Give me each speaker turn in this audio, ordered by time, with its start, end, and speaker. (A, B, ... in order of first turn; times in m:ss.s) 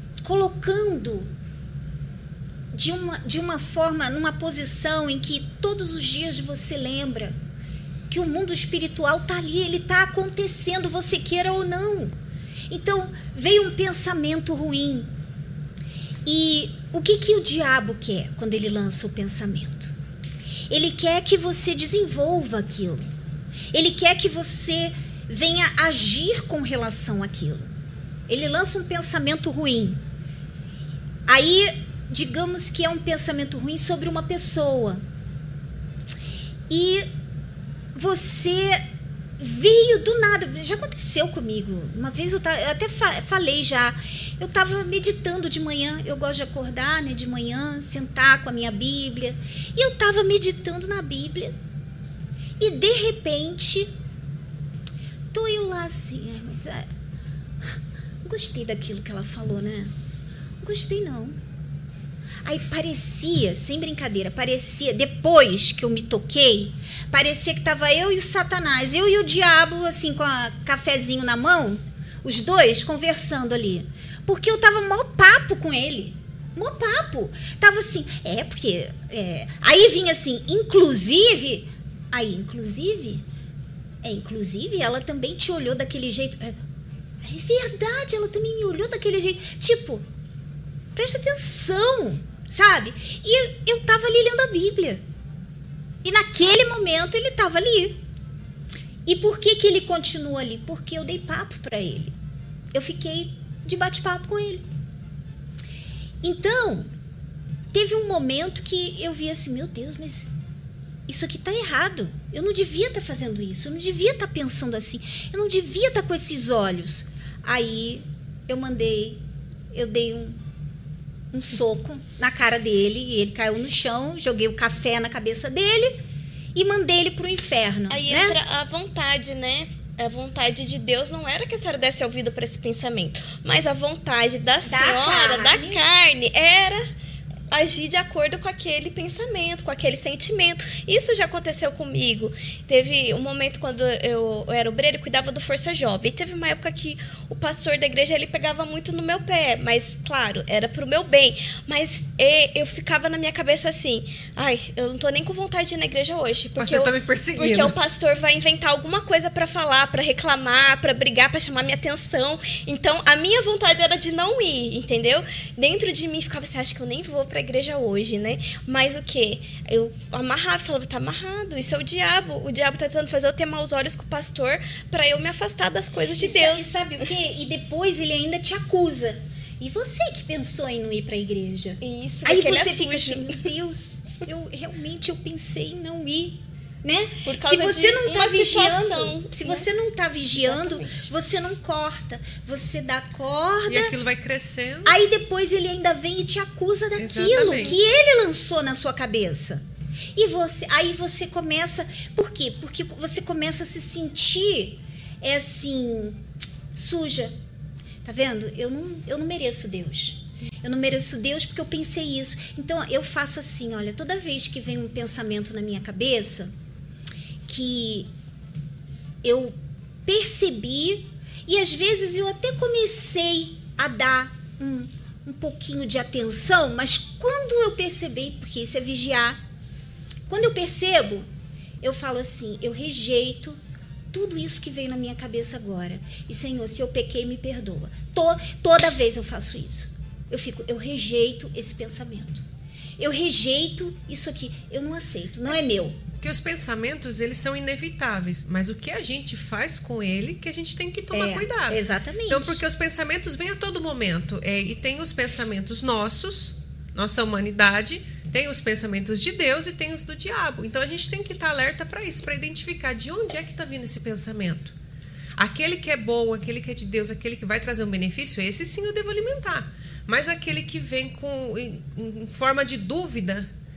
0:00.2-0:01.3 A
0:02.7-0:07.4 A
0:08.1-0:12.1 A
0:12.7-0:15.1 A
0:16.3-0:20.0 A
0:20.7-0:23.1 A
0:23.7-0:27.7 A
0:28.3-0:30.0 A
0:31.3-0:35.0 A
0:36.7-0:37.1 A
0:38.0-0:38.8 A
0:39.4-0:51.6 A
0:52.6-0:53.9 A
0:55.3-0:56.9 A
0:58.2-0:59.9 A
1:00.6-1:01.4 A
1:02.4-1:23.2 A
1:24.0-1:26.6 A
1:27.2-1:30.0 A
1:31.0-1:35.0 A
1:36.0-1:38.0 A
1:39.1-1:42.2 A
1:42.7-1:44.7 A
1:46.2-1:46.9 A
1:47.7-1:50.3 A
1:51.1-1:59.2 A
1:59.7-2:00.4 A
2:01.3-2:06.0 A
2:06.6-2:08.4 A
2:07.9-2:16.9 B
2:14.7-2:15.8 A
2:17.5-2:56.8 B
2:36.6-2:37.8 C
2:56.2-3:13.9 A
3:01.8-3:03.4 B
3:07.3-3:09.7 B
3:10.4-3:11.1 B
3:13.7-3:15.0 C
3:14.8-3:19.6 A
3:17.0-3:17.8 C
3:20.2-3:26.2 A
3:26.7-3:27.4 A
3:28.0-3:36.5 A
3:37.5-3:38.1 A
3:39.2-3:49.4 A
3:50.3-3:51.3 A
3:51.8-3:53.6 A
3:54.1-4:02.4 A
4:03.0-4:06.0 A
4:06.2-4:24.7 C
4:11.1-4:12.6 A
4:25.4-4:33.5 C